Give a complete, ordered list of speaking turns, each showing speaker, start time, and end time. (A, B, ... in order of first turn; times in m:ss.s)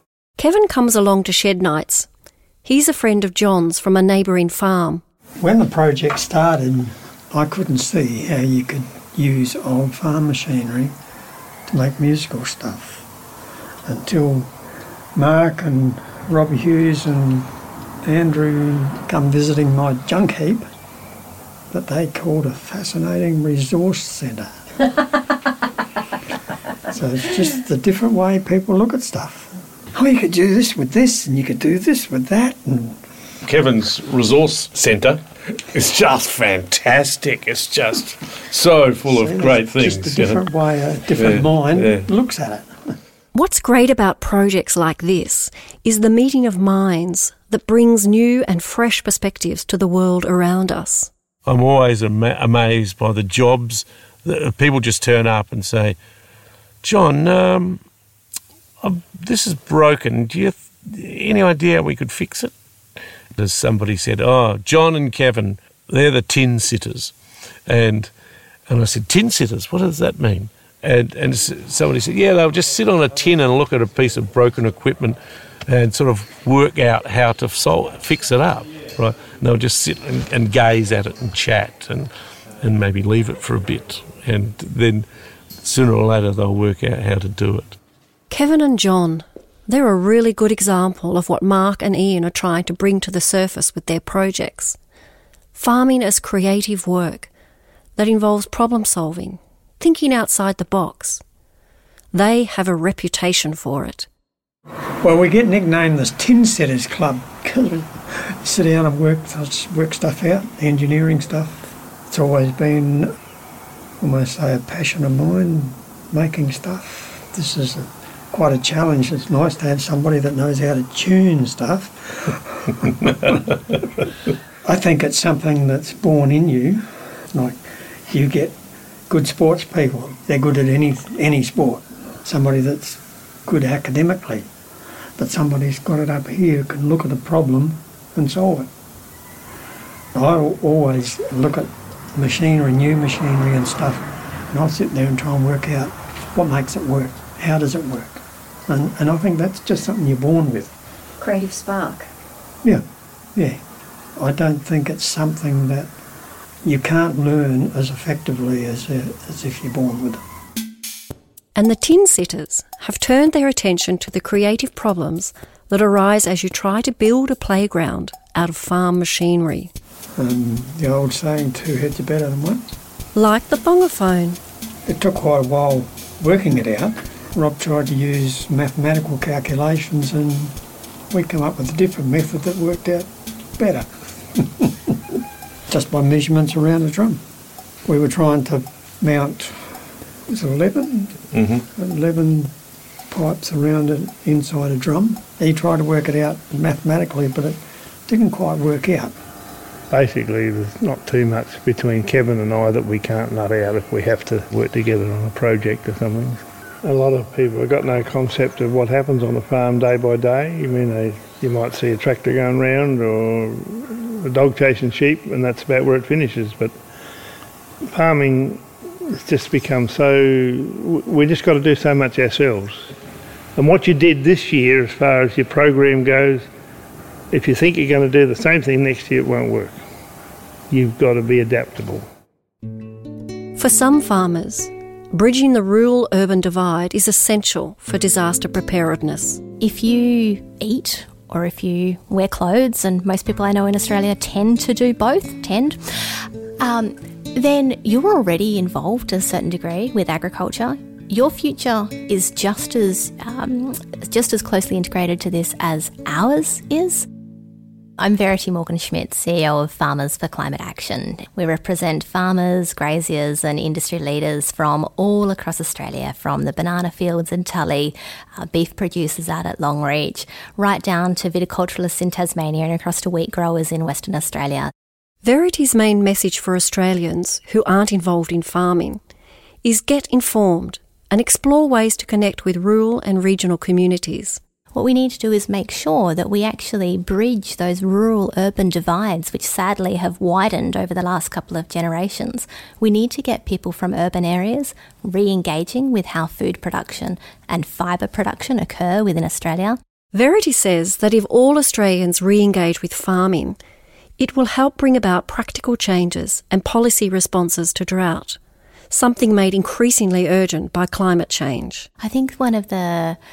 0:00.4-0:02.1 A
0:02.6-0:05.0 A
0:05.4-0:10.9 B
0:11.7-0:13.1 B
0:13.9-0:14.5 B
0:15.1-0:17.5 B
0:18.0-0:20.7 B
0:21.7-0:25.0 B
0:26.9-0:33.0 B
0:33.4-0:40.4 C
0:39.1-0:42.9 B
0:41.1-0:42.0 C
0:43.3-0:51.1 A
0:51.4-0:56.0 C
0:56.8-0:57.8 C
0:58.8-1:02.5 C
1:03.4-1:07.1 C
1:07.7-1:08.1 C
1:08.7-1:25.1 C
1:25.6-1:27.8 C
1:28.3-1:34.8 A
1:35.6-1:37.3 A
1:38.0-1:41.2 A
1:42.1-1:44.1 A
1:45.0-1:53.1 B
1:54.0-2:03.8 B
2:04.6-2:08.6 B
2:09.1-2:14.5 B
2:15.2-2:18.7 B
2:20.1-2:30.7 B
2:31.2-2:32.1 A
2:33.4-2:33.6 B
2:34.2-2:35.9 B
2:36.6-2:40.2 B
2:41.6-2:49.7 A
2:50.2-2:52.6 B
2:53.1-2:54.4 A
2:54.9-3:00.6 B
3:01.1-3:05.1 B
3:05.7-3:07.2 B
3:07.9-3:12.5 B
3:11.3-3:11.6 C
3:13.1-3:19.1 B
3:19.9-3:36.8 D
3:37.8-3:42.9 D
3:43.6-3:46.5 D
3:47.3-3:49.8 D
3:50.7-3:52.1 D
3:53.6-3:59.4 A
3:59.6-4:17.1 E
4:18.0-4:34.7 E
4:35.2-4:39.0 A
4:39.6-4:44.4 A
4:44.7-4:59.8 E
5:00.1-5:03.6 A
5:04.2-5:08.4 A
5:08.9-5:11.9 A
5:12.0-5:13.2 E